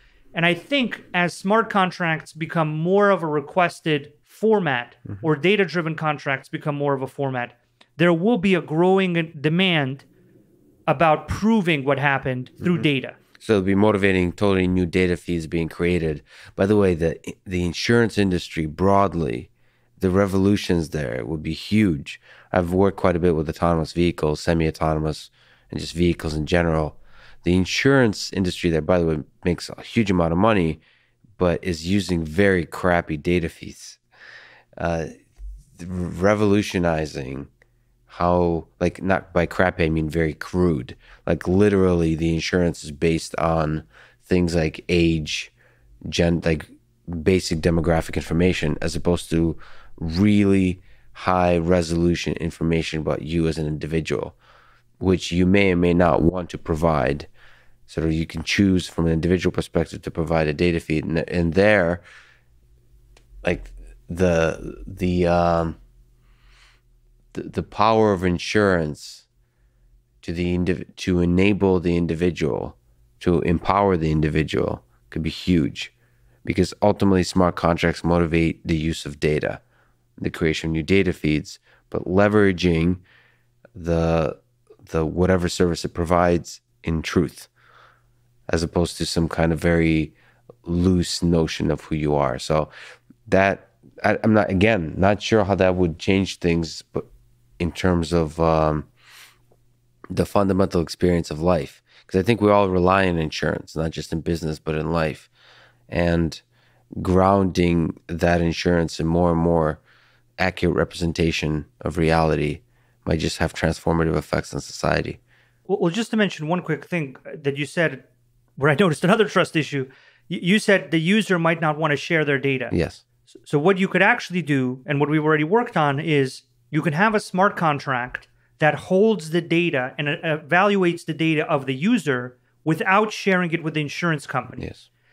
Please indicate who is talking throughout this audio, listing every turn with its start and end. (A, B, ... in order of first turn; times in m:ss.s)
0:00.3-0:10.0 A
0:10.9-0:13.2 A
0:13.4-0:30.8 B
0:31.4-0:34.0 B
0:34.8-0:35.1 B
0:35.8-0:37.5 B
0:38.1-0:45.5 B
0:46.0-0:54.4 B
0:55.0-0:57.3 B
0:57.9-1:02.0 B
1:03.4-1:05.8 B
1:07.3-1:09.3 B
1:10.2-1:15.9 B
1:16.4-1:19.6 B
1:20.2-1:23.0 B
1:23.8-1:27.5 B
1:28.5-1:30.1 B
1:30.6-1:32.7 B
1:33.3-1:37.1 B
1:37.6-1:38.9 B
1:40.1-1:45.3 B
1:45.9-1:46.4 B
1:47.0-1:49.8 B
1:50.4-1:55.2 B
1:55.7-1:58.0 A
1:58.6-2:02.7 A
2:02.7-2:03.0 B
2:03.4-2:14.6 A
2:14.6-2:14.9 B